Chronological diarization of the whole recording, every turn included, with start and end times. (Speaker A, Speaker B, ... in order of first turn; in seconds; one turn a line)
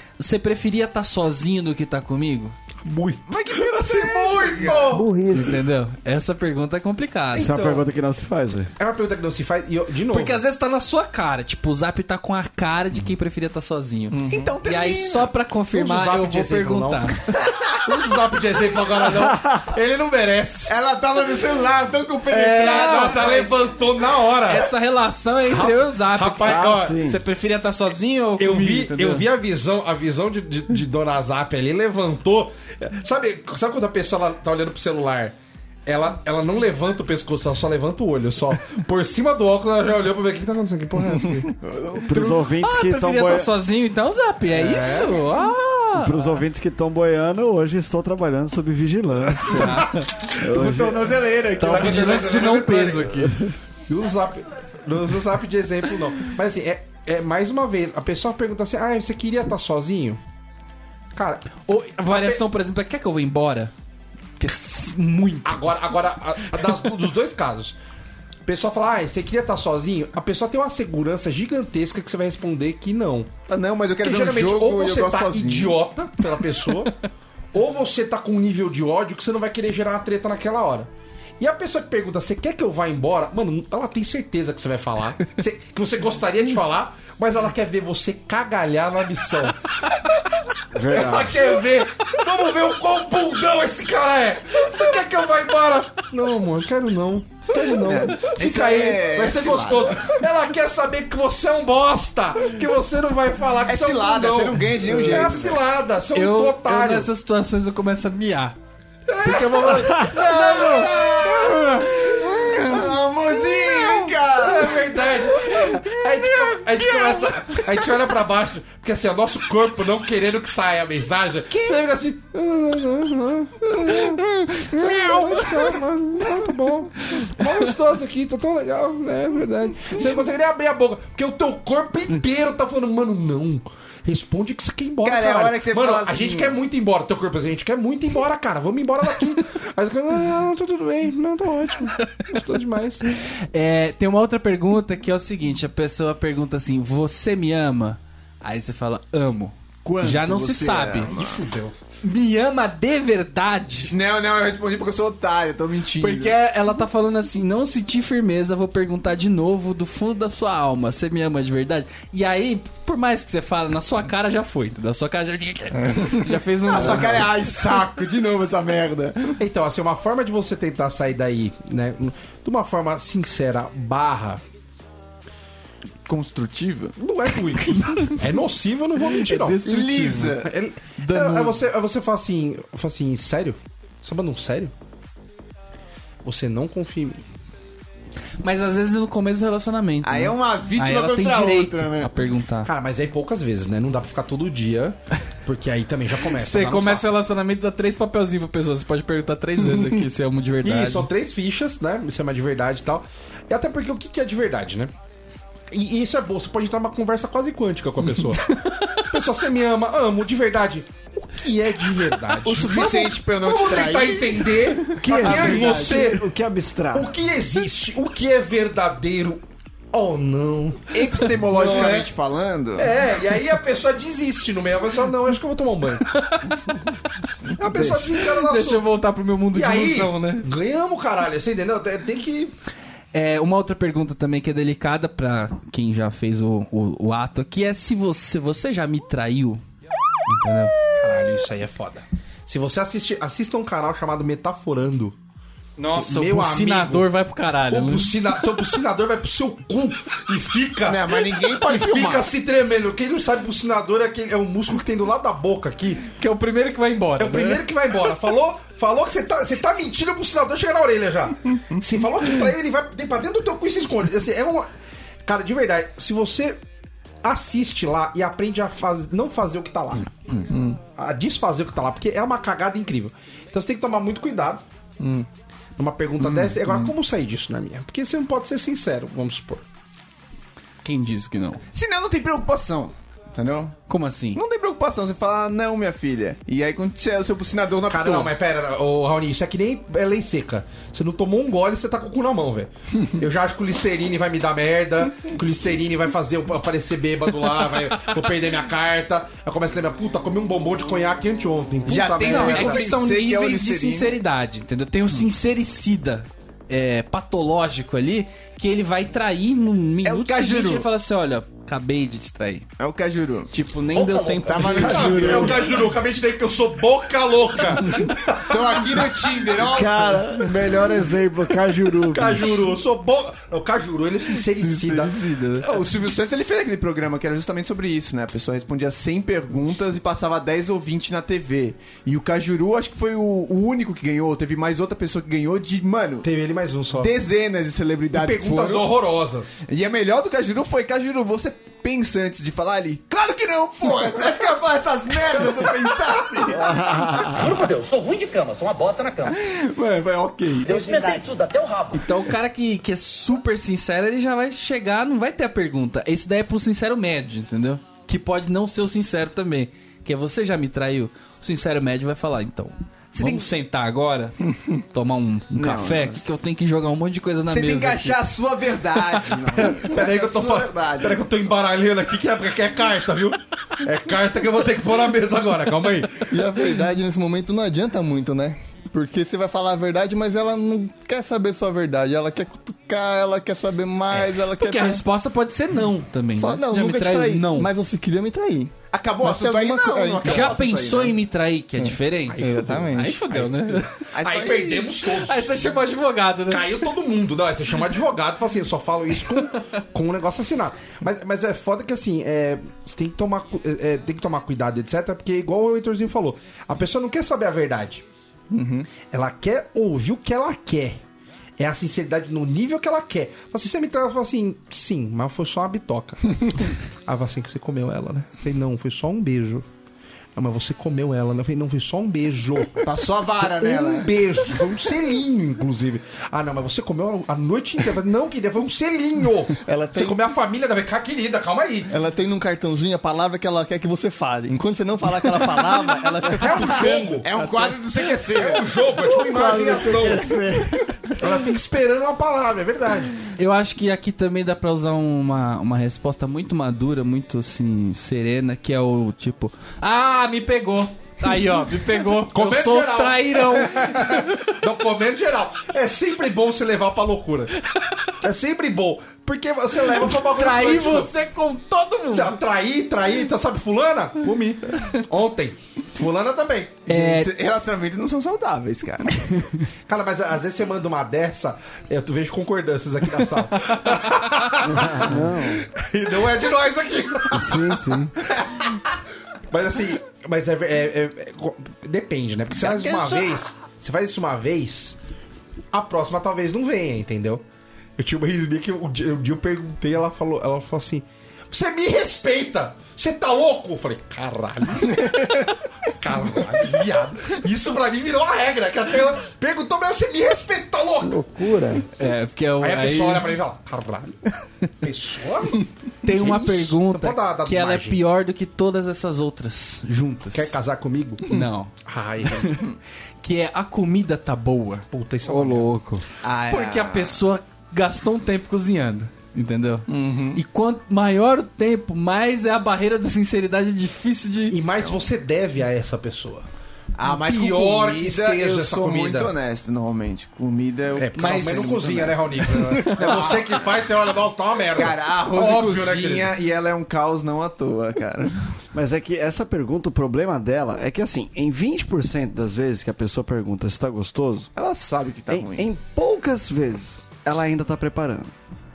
Speaker A: 0.2-2.5
Speaker B: 2.9-5.1
Speaker C: 3.3-5.0
Speaker D: 4.9-5.6
Speaker A: 5.3-7.8
Speaker D: 7.3-8.7
Speaker B: 7.4-7.8
Speaker B: 8.8-10.4
Speaker A: 10.1-17.2
Speaker C: 14.2-15.3
Speaker E: 14.2-14.5
Speaker B: 15.7-20.7
Speaker C: 20.7-23.7
Speaker B: 22.3-24.7
Speaker A: 22.6-23.3
Speaker A: 24.4-29.3
Speaker B: 25.5-27.0
Speaker D: 26.4-27.2
Speaker B: 28.4-41.5
Speaker C: 41.6-42.4
Speaker D: 42.0-43.5
Speaker A: 42.6-46.2
Speaker B: 44.5-45.2
Speaker D: 46.0-51.2
Speaker A: 49.5-50.1
Speaker C: 50.4-52.5
Speaker A: 51.6-53.4
Speaker B: 51.6-53.3
Speaker B: 53.9-60.2
Speaker B: 61.1-61.5
Speaker A: 61.7-63.7
Speaker B: 62.1-62.4
Speaker A: 64.4-65.7
Speaker B: 65.4-67.8
Speaker B: 68.5-73.3
Speaker C: 73.5-75.8
Speaker B: 74.0-77.0
Speaker B: 77.5-89.6
Speaker D: 90.7-91.4
Speaker B: 90.9-107.1
Speaker C: 97.8-100.2
Speaker C: 103.7-105.6
Speaker A: 106.1-108.5
Speaker B: 109.1-112.0
Speaker A: 109.2-112.6
Speaker C: 110.1-117.8
Speaker B: 114.4-143.0
Speaker C: 121.5-121.9
Speaker C: 124.8-125.7
Speaker C: 135.0-136.6
Speaker A: 143.2-151.1
Speaker C: 149.8-151.4
Speaker B: 151.0-151.7
Speaker A: 152.0-153.9
Speaker C: 153.9-156.3
Speaker A: 156.0-167.3
Speaker C: 166.6-169.4
Speaker B: 166.7-167.3
Speaker B: 169.4-174.4
Speaker C: 176.1-176.9
Speaker B: 177.0-179.6
Speaker A: 177.7-178.2
Speaker A: 179.2-180.4
Speaker C: 179.6-180.5
Speaker B: 180.4-184.7
Speaker A: 181.0-181.6
Speaker B: 186.2-187.3
Speaker A: 188.4-192.7
Speaker C: 190.0-192.1
Speaker B: 192.7-197.1
Speaker A: 196.4-201.1
Speaker B: 200.6-204.9
Speaker B: 205.7-216.3
Speaker A: 208.5-208.9
Speaker C: 212.4-216.0
Speaker D: 215.0-217.1
Speaker B: 216.9-222.1
Speaker C: 220.9-223.0
Speaker B: 222.8-226.1
Speaker A: 226.2-226.6
Speaker B: 227.6-228.9
Speaker A: 227.7-230.5
Speaker B: 229.5-232.5
Speaker A: 233.1-239.6
Speaker A: 240.3-240.7
Speaker B: 241.0-245.2
Speaker A: 245.8-248.1
Speaker B: 245.9-247.1
Speaker B: 247.7-256.0
Speaker C: 250.9-252.3
Speaker A: 256.1-257.7
Speaker B: 257.2-264.7
Speaker B: 265.2-266.6
Speaker B: 267.2-274.6
Speaker B: 275.8-279.6
Speaker C: 276.2-276.8
Speaker A: 280.8-281.6
Speaker C: 281.7-283.8
Speaker A: 283.9-284.4
Speaker C: 284.4-288.3
Speaker B: 287.9-302.9
Speaker C: 301.9-304.2
Speaker A: 302.2-312.7
Speaker C: 310.1-310.9
Speaker C: 312.8-315.9
Speaker A: 313.5-315.4
Speaker B: 314.6-319.4
Speaker D: 314.7-315.6
Speaker C: 318.4-320.2
Speaker D: 319.7-322.7
Speaker B: 322.1-325.7
Speaker A: 324.6-325.2
Speaker C: 325.6-336.3
Speaker B: 336.2-337.1
Speaker C: 337.0-338.9
Speaker B: 338.1-339.6
Speaker C: 339.7-346.8
Speaker D: 346.5-347.5
Speaker F: 347.2-349.4
Speaker C: 349.3-351.1
Speaker F: 350.6-352.1
Speaker A: 351.9-368.3
Speaker C: 363.1-363.5
Speaker C: 365.5-366.2
Speaker C: 367.5-371.2
Speaker A: 369.1-369.4
Speaker B: 369.8-376.3
Speaker E: 376.3-385.0
Speaker A: 384.2-387.7
Speaker E: 386.4-390.6
Speaker C: 388.9-391.2
Speaker A: 390.2-393.9
Speaker E: 391.8-393.5
Speaker B: 392.3-395.8
Speaker C: 394.1-395.0
Speaker A: 395.1-396.9
Speaker B: 396.5-408.0
Speaker C: 408.5-408.9
Speaker B: 409.0-411.0
Speaker B: 411.6-419.7
Speaker B: 420.4-422.9
Speaker C: 422.8-424.3
Speaker B: 423.5-431.9
Speaker E: 429.6-430.2
Speaker E: 431.9-437.8
Speaker B: 436.2-437.3
Speaker C: 437.2-438.8
Speaker B: 438.3-440.4
Speaker D: 439.0-441.3
Speaker B: 441.2-443.2
Speaker A: 443.4-454.2
Speaker B: 452.2-457.6
Speaker B: 458.2-461.1
Speaker A: 460.1-462.4
Speaker B: 462.1-466.9
Speaker A: 466.9-467.3
Speaker C: 466.9-469.2
Speaker A: 469.3-469.6
Speaker B: 469.9-477.7
Speaker A: 473.7-474.3
Speaker D: 474.6-475.6
Speaker D: 477.3-478.2
Speaker B: 479.5-485.0
Speaker C: 482.6-483.3
Speaker B: 485.7-487.4
Speaker B: 488.0-501.8
Speaker D: 501.3-501.8
Speaker A: 501.9-503.4
Speaker B: 502.6-504.2
Speaker B: 504.8-508.0
Speaker A: 506.0-510.6
Speaker B: 510.3-512.7
Speaker A: 511.3-511.7
Speaker A: 512.3-512.7
Speaker A: 513.2-514.9
Speaker B: 514.9-515.7
Speaker D: 515.2-516.0
Speaker C: 516.2-517.2
Speaker A: 516.5-524.6
Speaker C: 519.9-520.4
Speaker B: 524.5-526.5
Speaker C: 527.0-533.8
Speaker B: 527.0-529.3
Speaker B: 531.0-536.3
Speaker A: 531.1-531.9
Speaker C: 534.7-538.4
Speaker D: 538.7-544.5
Speaker C: 544.6-545.7
Speaker D: 545.3-548.3